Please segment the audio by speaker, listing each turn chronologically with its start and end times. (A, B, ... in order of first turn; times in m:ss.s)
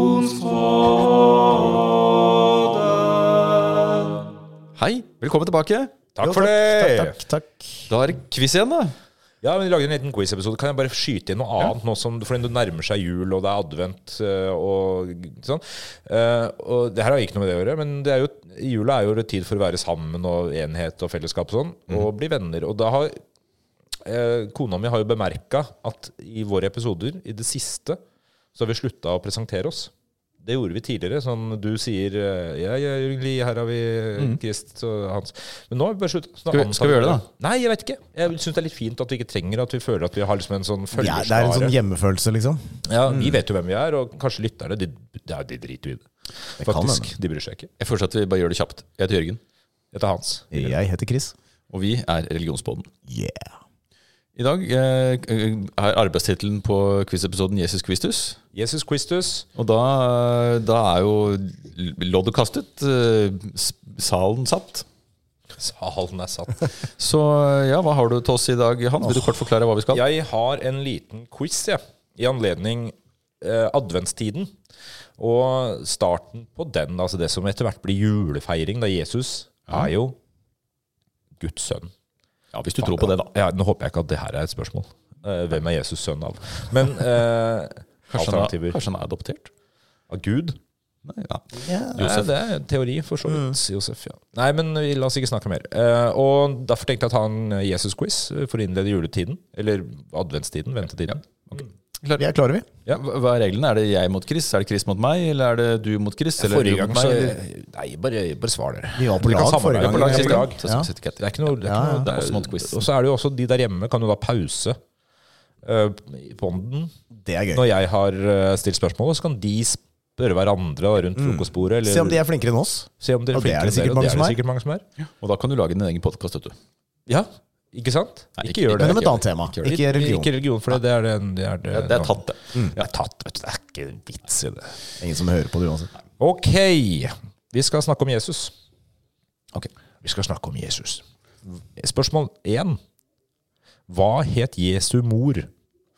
0:01.3-0:01.8 A
0:04.8-0:05.9 B
0:06.1-0:07.2 A
0:06.2-0:07.9 C
0:07.9-0:09.0 B
0:09.4-0:23.2 A
0:24.0-0:28.0 A
0:28.6-0:41.7 A
0:36.5-0:37.2 B
0:40.9-0:42.8 C
0:42.9-0:47.7 A
0:46.6-0:47.1 C
0:47.8-0:49.4 B
0:49.9-0:50.8 A
0:50.5-0:51.3 C
0:51.7-0:52.9 B
0:53.1-0:53.5 C
0:54.3-0:58.4 B
0:58.5-0:59.5 A
0:59.6-1:04.9 B
1:05.6-1:06.7 A
1:06.8-1:10.0 B
1:09.9-1:14.5 A
1:15.2-1:20.2 A
1:21.4-1:21.9 A
1:22.5-1:23.3 B
1:22.8-1:28.8 A
1:28.1-1:29.5 B
1:30.1-1:30.6 A
1:31.0-1:32.3 B
1:31.6-1:32.1 C
1:32.0-1:41.7 A
1:33.2-1:33.6 C
1:42.0-1:42.2 B
1:42.2-1:42.7 C
1:42.9-1:47.4 B
1:46.4-1:50.6 A
1:49.0-1:50.9 C
1:49.8-1:52.9 B
1:51.2-1:54.8 A
1:51.6-1:52.1 C
1:55.6-1:56.9 A
1:57.1-1:57.7 C
1:57.5-2:02.2 A
2:01.2-2:04.4 C
2:03.0-2:04.8 A
2:05.0-2:06.6 B
2:07.1-2:14.8 A
2:08.4-2:09.7 B
2:08.7-2:10.4 C
2:11.7-2:12.8 B
2:15.0-2:15.9 C
2:16.2-2:18.5 A
2:20.0-2:22.8 A
2:23.9-2:25.5 A